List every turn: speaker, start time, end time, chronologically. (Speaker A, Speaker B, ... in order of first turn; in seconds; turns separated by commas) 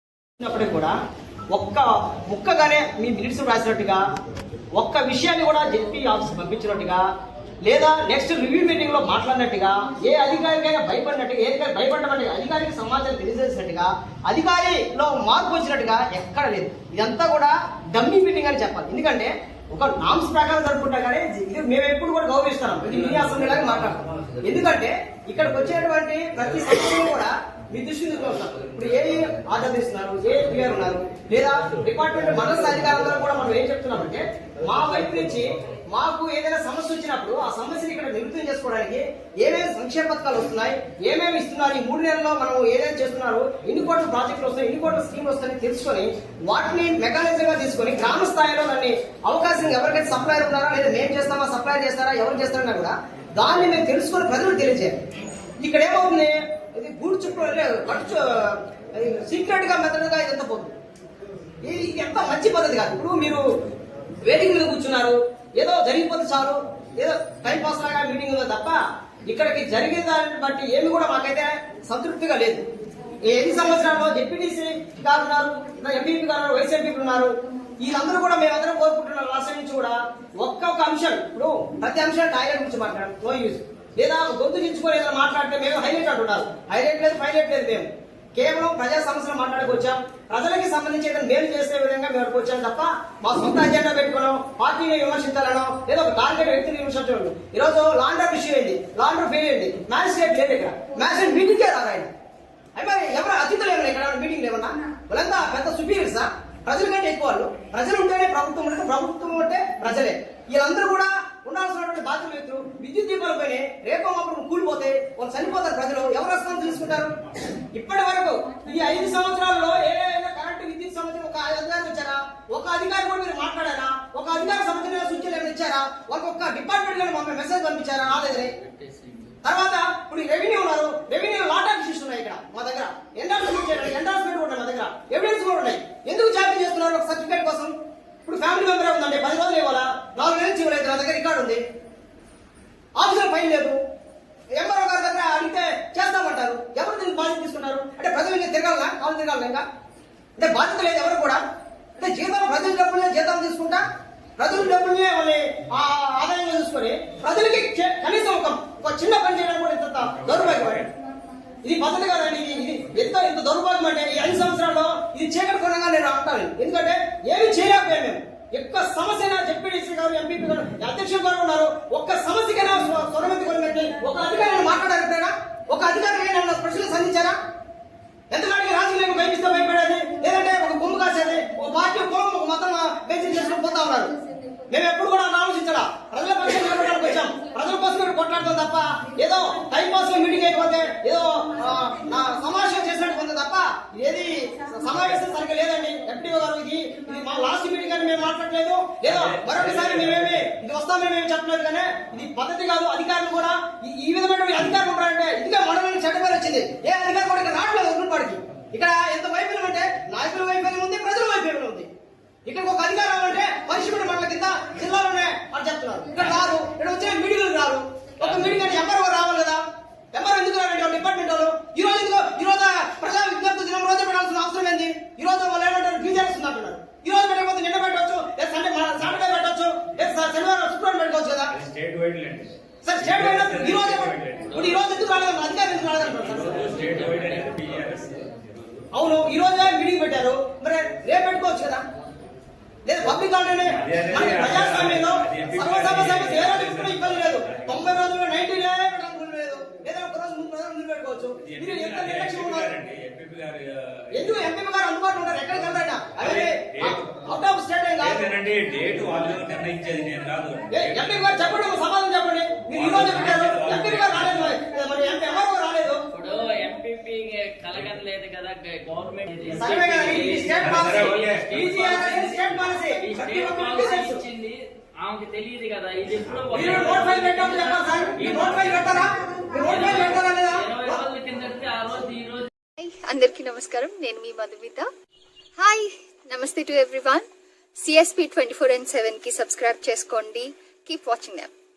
Speaker A: 0.4-0.9, Speaker A: 1.5-4.0, Speaker A: 4.8-7.0, Speaker A: 7.7-55.0, Speaker A: 55.6-60.7, Speaker A: 61.6-63.4, Speaker A: 64.2-72.6, Speaker A: 73.3-102.1, Speaker A: 102.8-117.2, Speaker A: 117.7-128.5, Speaker B: 128.4-129.3, Speaker A: 129.4-137.7, Speaker A: 138.2-141.6, Speaker A: 142.9-143.8, Speaker A: 144.6-149.6, Speaker A: 150.4-151.4, Speaker A: 151.9-153.8, Speaker A: 154.4-160.9, Speaker C: 160.1-160.9, Speaker A: 161.6-177.4, Speaker A: 178.3-184.1, Speaker A: 184.7-211.9, Speaker C: 199.1-200.5, Speaker A: 212.4-219.6, Speaker A: 220.1-231.5, Speaker C: 231.5-234.6, Speaker A: 232.8-236.8, Speaker C: 236.1-238.8, Speaker B: 236.5-237.5, Speaker A: 238.9-241.8, Speaker A: 242.8-252.7, Speaker C: 243.7-248.0, Speaker C: 251.4-254.5, Speaker A: 254.1-258.3, Speaker C: 256.1-257.2, Speaker C: 258.0-261.4, Speaker A: 260.7-266.0, Speaker C: 262.7-264.6, Speaker B: 266.1-278.9, Speaker A: 269.5-274.2, Speaker C: 270.6-271.6, Speaker A: 276.5-281.0, Speaker B: 279.6-282.5, Speaker D: 282.8-284.9, Speaker D: 285.6-287.2, Speaker D: 287.8-291.5